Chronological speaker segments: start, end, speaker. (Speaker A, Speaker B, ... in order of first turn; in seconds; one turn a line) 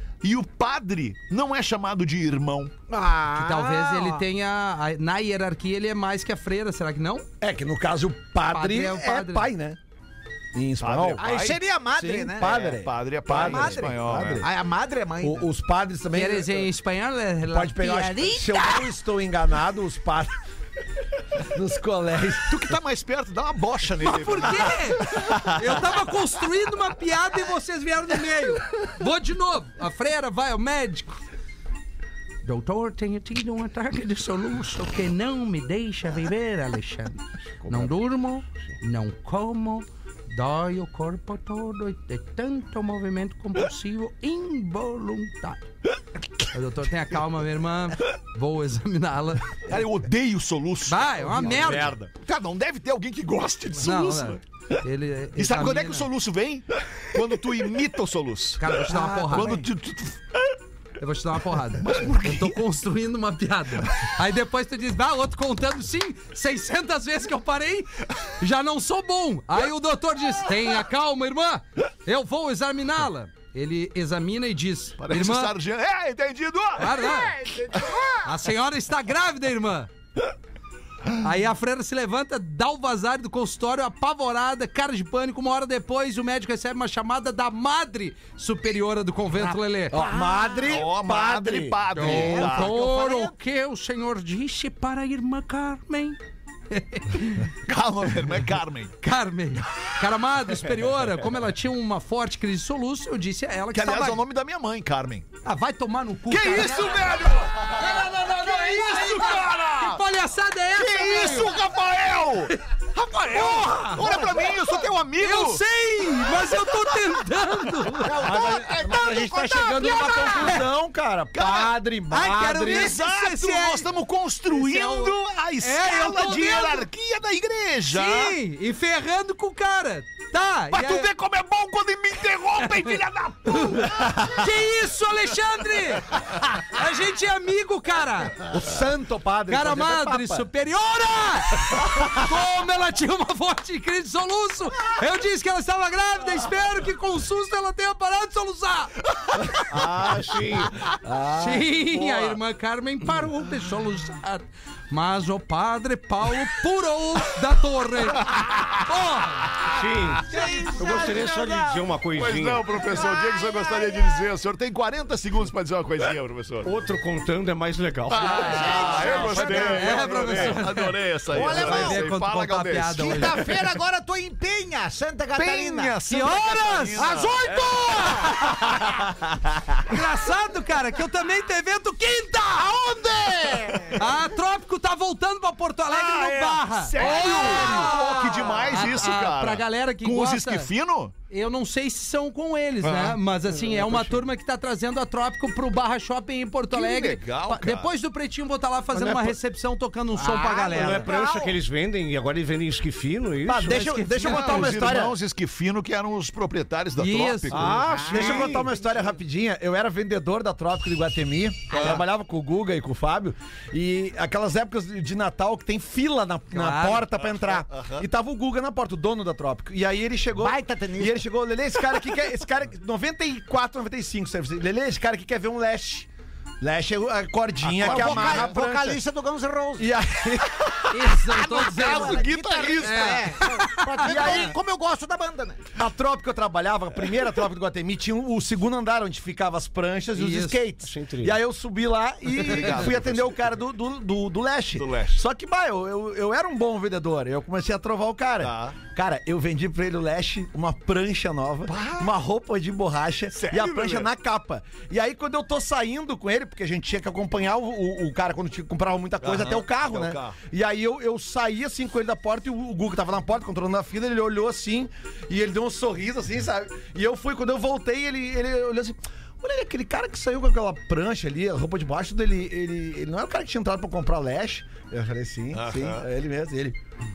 Speaker A: 0.2-2.7
Speaker B: 2.9-4.2
Speaker C: 3.3-7.3
Speaker D: 7.4-9.8
Speaker C: 8.5-9.5
Speaker D: 10.5-11.2
Speaker A: 10.8-11.6
Speaker B: 11.2-12.6
Speaker D: 12.0-14.5
Speaker A: 12.3-14.4
Speaker B: 13.3-15.5
Speaker D: 15.2-16.7
Speaker C: 16.1-18.8
Speaker D: 17.4-20.3
Speaker D: 21.5-22.7
Speaker A: 22.4-25.4
Speaker C: 24.0-31.1
Speaker C: 32.4-45.6
Speaker E: 37.6-37.9
Speaker C: 46.4-49.6
Speaker A: 49.6-54.4
Speaker C: 50.9-51.9
Speaker E: 51.5-52.1
Speaker C: 53.8-56.1
Speaker A: 55.4-60.5
Speaker C: 58.6-59.6
Speaker B: 58.9-59.6
Speaker C: 61.0-75.5
Speaker A: 61.8-62.6
Speaker A: 75.0-78.2
Speaker C: 76.8-77.4
Speaker C: 78.2-79.9
Speaker C: 81.2-90.0
Speaker B: 89.4-90.8
Speaker D: 89.9-91.8
Speaker A: 90.6-92.7
Speaker C: 91.9-96.2
Speaker B: 92.0-93.4
Speaker C: 96.7-97.5
Speaker A: 97.7-98.9
Speaker C: 99.0-104.2
Speaker A: 103.7-105.3
Speaker C: 105.4-111.6
Speaker A: 106.3-110.0
Speaker A: 110.7-115.6
Speaker C: 113.4-113.7
Speaker B: 113.9-114.3
Speaker C: 115.2-118.2
Speaker B: 118.0-120.6
Speaker D: 118.1-123.0
Speaker A: 118.2-120.5
Speaker C: 119.9-120.2
Speaker A: 121.3-121.8
Speaker C: 122.1-123.9
Speaker A: 122.5-128.4
Speaker C: 124.5-126.9
Speaker C: 127.8-131.1
Speaker A: 130.7-134.4
Speaker C: 132.7-132.9
Speaker C: 133.5-138.5
Speaker D: 138.4-140.5
Speaker C: 139.5-149.4
Speaker E: 149.6-150.8
Speaker D: 151.0-151.6
Speaker C: 151.3-159.7
Speaker A: 151.9-152.4
Speaker A: 158.1-158.9
Speaker E: 159.6-162.7
Speaker C: 160.2-161.2
Speaker B: 160.2-161.9
Speaker A: 162.1-166.7
Speaker B: 162.7-164.2
Speaker E: 166.6-170.6
Speaker A: 168.1-173.6
Speaker B: 168.2-170.1
Speaker C: 168.7-173.5
Speaker B: 171.3-172.1
Speaker B: 172.9-176.0
Speaker A: 175.3-177.7
Speaker C: 176.1-178.8
Speaker B: 177.0-178.3
Speaker C: 179.8-182.9
Speaker B: 182.6-184.0
Speaker A: 183.4-183.9
Speaker C: 183.9-190.7
Speaker A: 185.9-191.1
Speaker C: 191.3-201.1
Speaker A: 192.8-193.2
Speaker E: 193.6-194.1
Speaker A: 196.7-197.9
Speaker E: 198.9-199.3
Speaker B: 200.1-201.6
Speaker E: 200.5-204.0
Speaker D: 203.4-205.2
Speaker C: 203.7-205.0
Speaker A: 204.2-207.9
Speaker C: 207.0-207.8
Speaker D: 207.5-226.1
Speaker E: 207.5-208.7
Speaker B: 207.8-208.7
Speaker A: 211.7-212.0
Speaker B: 211.7-212.0
Speaker C: 216.5-217.1
Speaker A: 217.1-218.1
Speaker B: 220.4-221.2
Speaker D: 226.6-229.0
Speaker A: 227.6-228.6
Speaker B: 227.8-229.9
Speaker D: 229.8-231.4
Speaker C: 230.9-234.6
Speaker B: 231.3-235.7
Speaker A: 231.5-233.2
Speaker D: 234.0-234.6
Speaker D: 235.7-276.8
Speaker C: 240.1-240.6
Speaker E: 240.8-241.4
Speaker A: 242.3-243.4
Speaker A: 244.7-245.2
Speaker A: 248.4-248.8
Speaker A: 251.7-252.1
Speaker A: 253.3-254.1
Speaker A: 259.2-260.4
Speaker A: 275.5-276.1